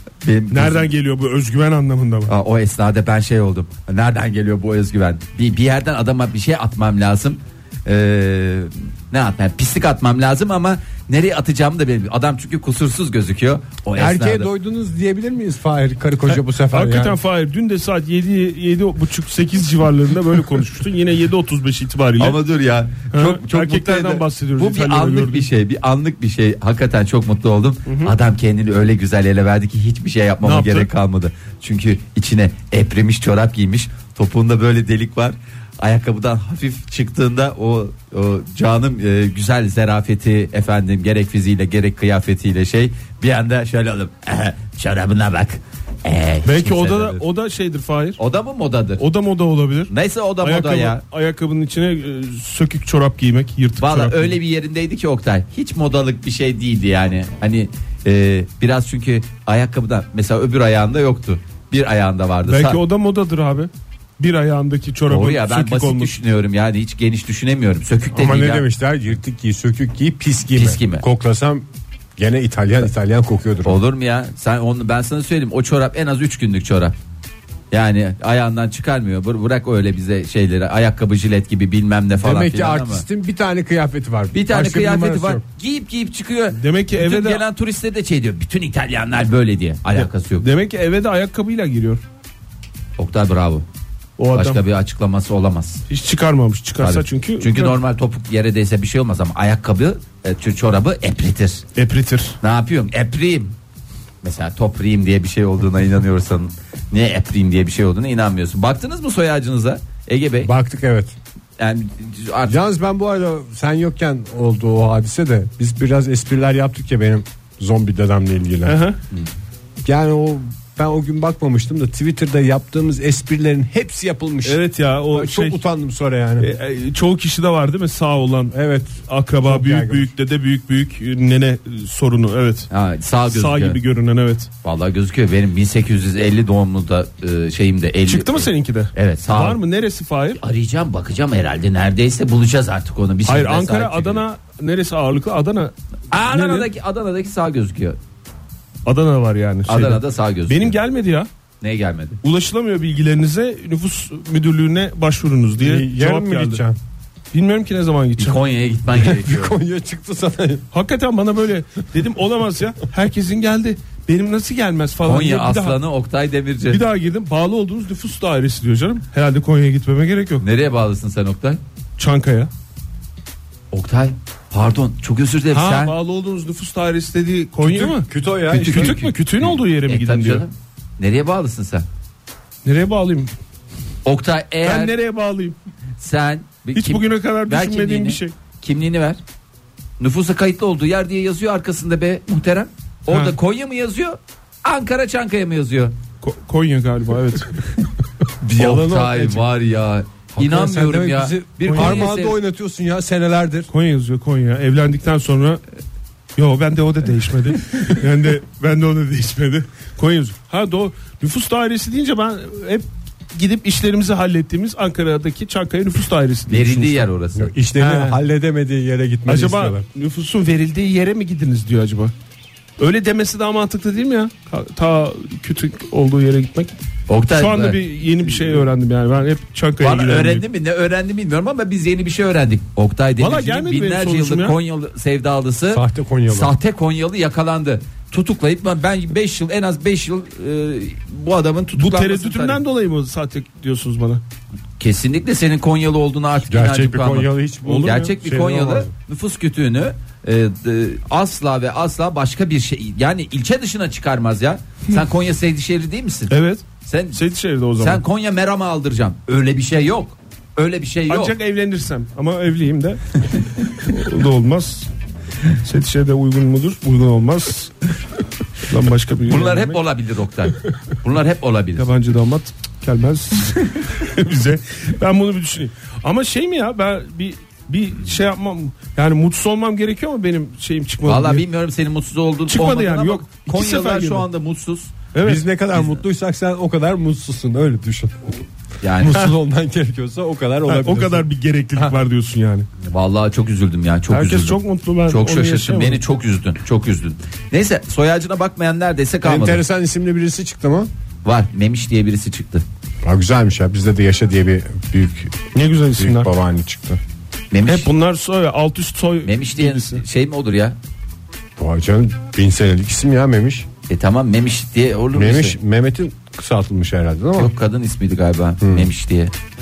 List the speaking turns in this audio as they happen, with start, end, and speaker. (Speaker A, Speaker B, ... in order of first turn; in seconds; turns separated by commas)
Speaker A: 0.2-0.9, Speaker B: 0.5-2.3, Speaker A: 2.3-14.5, Speaker C: 14.0-17.2, Speaker B: 16.3-22.4, Speaker A: 22.2-47.2, Speaker B: 23.1-25.5, Speaker B: 27.9-28.1, Speaker B: 30.4-30.9, Speaker B: 46.5-48.2, Speaker A: 48.2-49.0, Speaker B: 49.0-54.4, Speaker A: 49.9-51.0, Speaker A: 53.8-62.8, Speaker B: 62.5-66.1, Speaker A: 65.1-68.7, Speaker C: 68.2-73.8, Speaker A: 70.5-71.0, Speaker A: 73.7-77.0, Speaker A: 77.7-83.0, Speaker C: 82.2-85.4, Speaker A: 84.3-90.5, Speaker B: 86.5-87.4, Speaker B: 89.9-92.0, Speaker A: 93.0-93.7, Speaker B: 94.2-94.6, Speaker A: 94.3-95.8, Speaker B: 95.9-97.8, Speaker A: 96.8-101.6, Speaker B: 101.8-102.4, Speaker A: 102.4-103.5, Speaker A: 104.2-110.5, Speaker C: 110.4-111.2, Speaker A: 111.6-112.6, Speaker C: 112.5-118.8, Speaker B: 118.7-119.0, Speaker C: 119.8-126.5, Speaker B: 124.5-125.6, Speaker B: 126.4-132.7, Speaker C: 128.5-130.1, Speaker A: 132.7-133.8, Speaker B: 133.3-134.5, Speaker A: 134.6-139.6, Speaker B: 138.1-140.4, Speaker A: 140.4-144.2, Speaker B: 143.3-146.7, Speaker A: 146.1-148.0, Speaker B: 148.9-151.3, Speaker A: 149.7-150.8, Speaker A: 151.6-152.2, Speaker B: 152.2-156.6, Speaker C: 155.6-156.8, Speaker B: 157.3-158.4, Speaker A: 158.2-159.6, Speaker C: 158.9-160.7, Speaker B: 160.7-165.8, Speaker A: 165.0-166.8, Speaker B: 166.7-170.4, Speaker A: 170.4-171.6, Speaker B: 172.0-172.5, Speaker A: 173.7-175.9, Speaker B: 175.5-180.4, Speaker C: 177.6-179.0, Speaker A: 178.5-181.9, Speaker B: 182.7-183.3, Speaker A: 184.1-184.9, Speaker B: 184.6-185.6, Speaker A: 186.0-189.2, Speaker B: 186.7-188.3, Speaker A: 190.0-195.9, Speaker B: 193.1-193.4, Speaker B: 196.2-197.6, Speaker A: 198.4-202.4, Speaker C: 198.5-199.4, Speaker C: 200.3-203.7, Speaker B: 201.7-202.1, Speaker B: 203.7-205.6, Speaker B: 206.4-217.1, Speaker A: 216.5-217.5, Speaker C: 217.4-219.8, Speaker B: 217.8-218.2, Speaker B: 219.3-222.1, Speaker B: 222.8-226.7, Speaker A: 227.1-227.8, Speaker B: 227.3-230.4, Speaker A: 229.8-242.6, Speaker B: 233.2-234.6, Speaker C: 235.7-236.5, Speaker B: 241.8-244.2, Speaker A: 244.8-256.3, Speaker C: 246.5-248.9, Speaker B: 247.7-248.1, Speaker B: 256.3-258.0, Speaker A: 256.9-257.2, Speaker A: 257.8-261.4, Speaker B: 261.1-264.9, Speaker B: 265.5-267.7, Speaker B: 268.6-269.8, Speaker A: 269.3-271.9, Speaker B: 271.8-281.4, Speaker A: 281.1-284.9, Speaker B: 282.5-284.3, Speaker B: 285.1-285.4, Speaker C: 285.2-288.4, Speaker A: 288.8-289.3, Speaker C: 289.0-292.0, Speaker B: 290.7-292.7, Speaker A: 292.8-299.6, Speaker B: 294.1-296.0, Speaker C: 299.2-300.9, Speaker A: 301.2-302.6, Speaker C: 303.0-307.0, Speaker B: 305.5-306.3, Speaker A: 307.5-307.9, Speaker B: 307.6-310.0, Speaker A: 309.2-310.8, Speaker C: 311.6-313.7, Speaker A: 313.9-315.6, Speaker C: 315.1-317.5, Speaker A: 317.4-319.3, Speaker C: 318.6-318.9